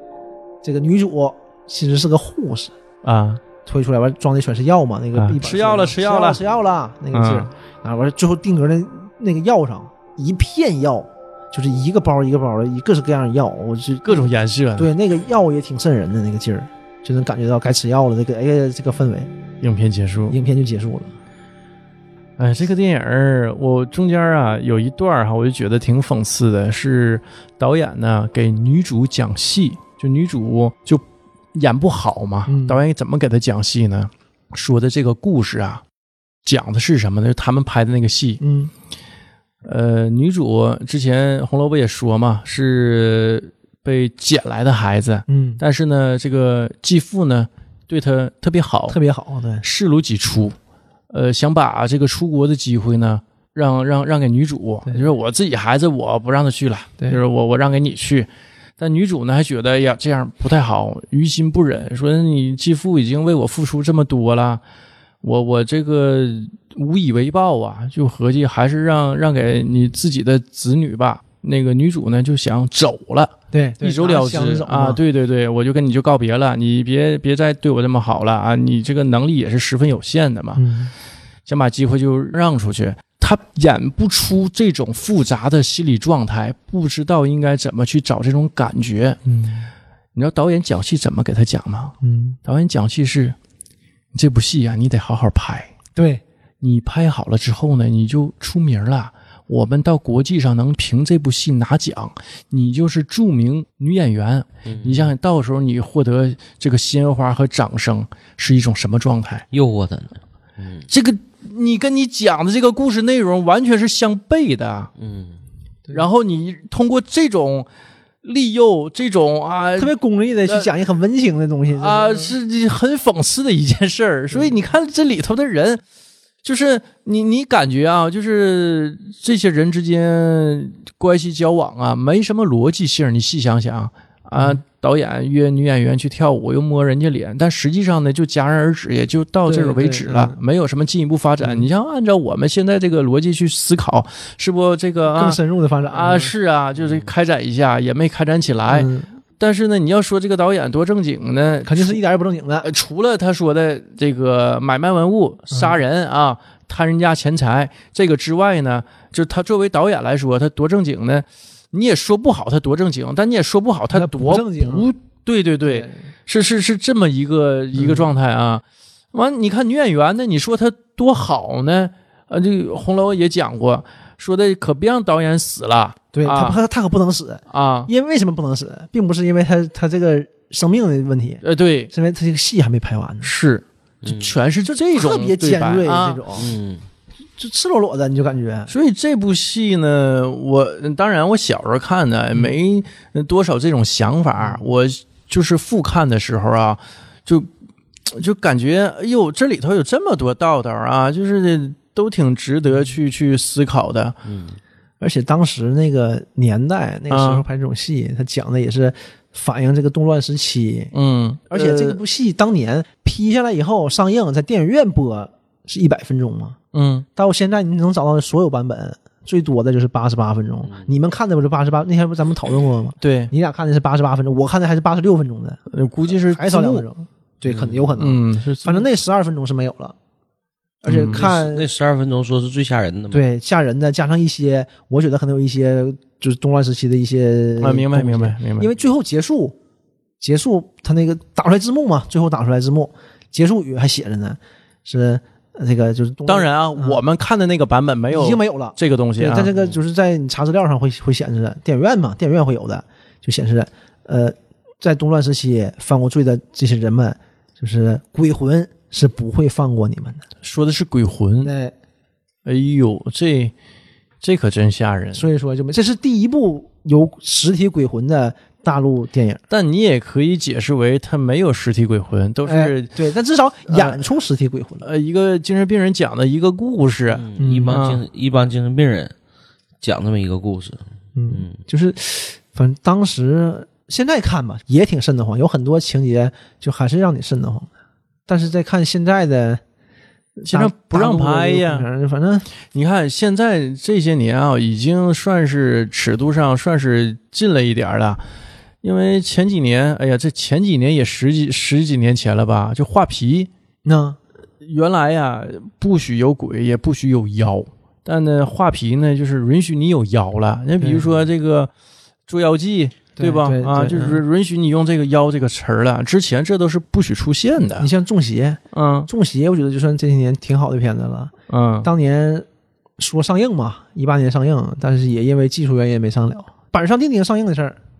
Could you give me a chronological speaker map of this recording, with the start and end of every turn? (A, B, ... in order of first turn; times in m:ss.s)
0:00.6-0:02.7 A
0:03.0-0:03.4 B
0:03.6-0:19.3 A
0:05.2-0:06.4 B
0:07.1-0:07.5 B
0:14.0-0:14.9 B
0:19.6-0:20.4 B
0:20.3-0:21.1 A
0:22.4-0:35.8 B
0:32.5-0:32.8 A
0:36.4-0:38.4 B
0:38.4-0:38.7 A
0:39.6-0:49.0 B
0:45.3-0:45.6 A
0:48.9-0:49.6 A
0:49.6-0:50.6 B
0:51.1-1:04.6 B
1:05.2-1:20.6 B
1:13.5-1:15.0 A
1:20.6-1:20.9 A
1:21.4-1:33.4 B
1:32.0-1:32.4 A
1:34.1-1:35.7 B
1:36.0-1:36.2 A
1:36.6-1:49.4 B
1:44.7-1:45.1 C
1:49.5-1:50.9 C
1:50.9-1:54.9 B
1:55.0-1:55.4 C
1:55.9-1:57.7 B
1:58.2-1:59.9 B
1:59.8-2:02.3 A
2:01.7-2:05.8 B
2:06.4-2:25.4 B
2:19.4-2:20.4 A
2:25.0-2:26.3 A
2:25.9-2:32.0 B
2:26.8-2:27.1 C
2:28.7-2:29.1 A
2:31.6-2:32.7 A
2:32.6-2:56.6 B
2:35.5-2:35.8 A
2:43.9-2:44.9 A
2:45.6-2:46.0 A
2:47.8-2:48.1 A
2:56.1-3:03.3 A
2:57.5-2:57.9 B
3:01.4-3:01.9 B
3:03.2-3:06.3 B
3:04.0-3:04.4 C
3:04.7-3:06.5 A
3:06.4-3:06.8 C
3:07.4-3:08.7 A
3:08.7-3:17.5 B
3:18.1-3:24.2 B
3:24.2-3:24.6 C
3:25.0-3:30.9 A
3:27.1-3:27.4 B
3:30.9-3:32.0 B
3:31.5-3:36.6 A
3:36.7-3:37.0 B
3:37.2-3:45.6 A
3:43.0-3:43.3 B
3:45.7-3:46.8 B
3:46.2-3:50.0 A
3:47.4-3:47.8 C
3:48.0-3:48.9 B
3:50.8-3:51.7 A
3:50.9-3:51.2 B
3:51.0-3:53.2 C
3:53.1-3:59.6 A
3:57.6-3:58.7 B
4:00.2-4:07.0 A
4:06.3-4:09.5 B
4:08.1-4:20.2 A
4:20.4-4:21.5 B
4:21.4-4:21.7 A
4:22.4-4:23.5 B
4:24.2-4:25.3 B
4:25.1-4:29.4 A
4:29.5-4:32.9 B
4:32.4-4:34.9 A
4:33.7-4:34.0 B
4:34.8-4:38.0 B
4:37.1-4:39.1 C
4:37.4-4:37.8 A
4:39.8-4:41.6 C
4:41.2-4:47.7 A
4:48.3-4:49.6 A
4:50.4-4:52.5 A
4:50.4-4:51.9 B
4:52.7-4:58.2 B
4:58.8-5:03.5 B
5:03.8-5:04.2 A
5:04.6-5:11.7 B
5:10.8-5:11.2 A
5:12.3-5:17.9 B
5:13.2-5:14.2 A
5:17.8-5:21.3 A
5:18.7-5:19.1 B
5:21.5-5:21.9 B
5:21.8-5:22.4 A
5:23.0-5:27.8 A